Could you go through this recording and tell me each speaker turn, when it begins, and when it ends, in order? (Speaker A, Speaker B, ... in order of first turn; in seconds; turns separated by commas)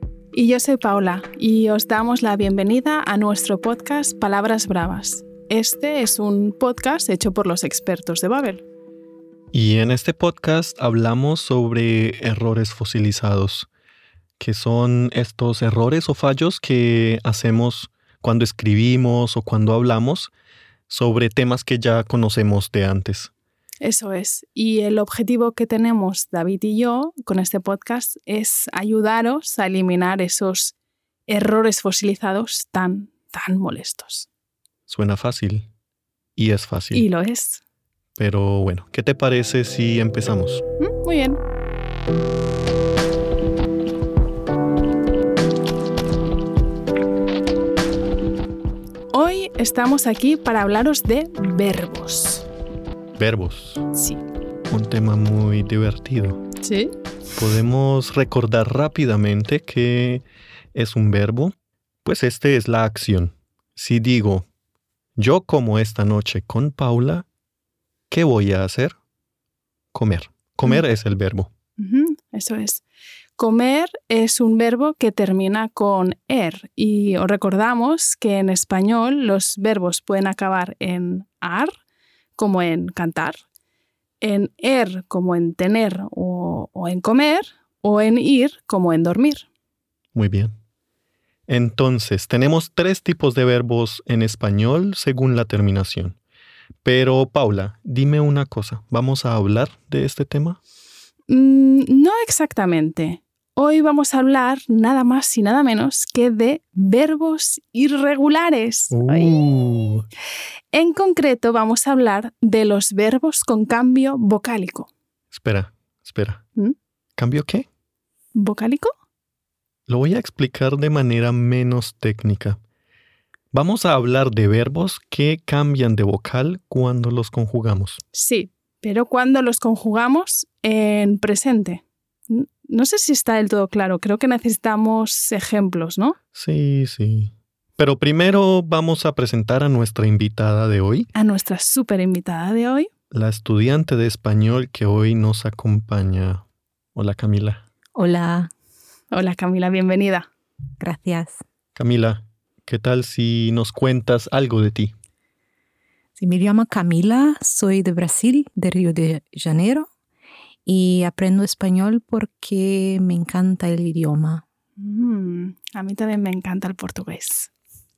Speaker A: 0.3-8.6, Speaker B: 9.5-13.7, Speaker B: 14.4-20.3, Speaker B: 20.9-23.3, Speaker A: 23.8-30.8, Speaker A: 31.3-34.3, Speaker B: 34.9-35.7, Speaker B: 36.4-37.1, Speaker A: 36.9-37.6, Speaker B: 38.2-40.6, Speaker A: 40.8-41.4, Speaker A: 49.1-52.5, Speaker B: 53.2-53.9, Speaker A: 53.9-54.2, Speaker B: 54.7-56.4, Speaker A: 56.6-56.9, Speaker B: 57.4-64.5, Speaker B: 65.2-67.2, Speaker B: 68.1-69.0, Speaker B: 69.9-71.5, Speaker A: 71.8-72.8, Speaker A: 73.4-81.8, Speaker A: 82.4-83.4, Speaker A: 84.2-89.5, Speaker B: 90.1-90.5, Speaker B: 91.5-96.2, Speaker B: 96.8-100.6, Speaker A: 101.3-109.3, Speaker B: 108.9-110.1, Speaker A: 110.7-114.9, Speaker B: 115.3-116.4, Speaker B: 117.2-117.7, Speaker A: 118.3-118.9, Speaker B: 119.9-122.6, Speaker B: 123.5-128.0, Speaker A: 128.1-136.2, Speaker B: 136.3-141.1, Speaker A: 141.2-142.9, Speaker B: 143.1-146.4, Speaker B: 146.9-147.7, Speaker C: 147.9-148.5, Speaker A: 149.1-150.3, Speaker C: 150.8-151.4, Speaker B: 151.8-154.9, Speaker C: 156.2-159.9, Speaker C: 160.7-164.4, Speaker A: 164.8-167.5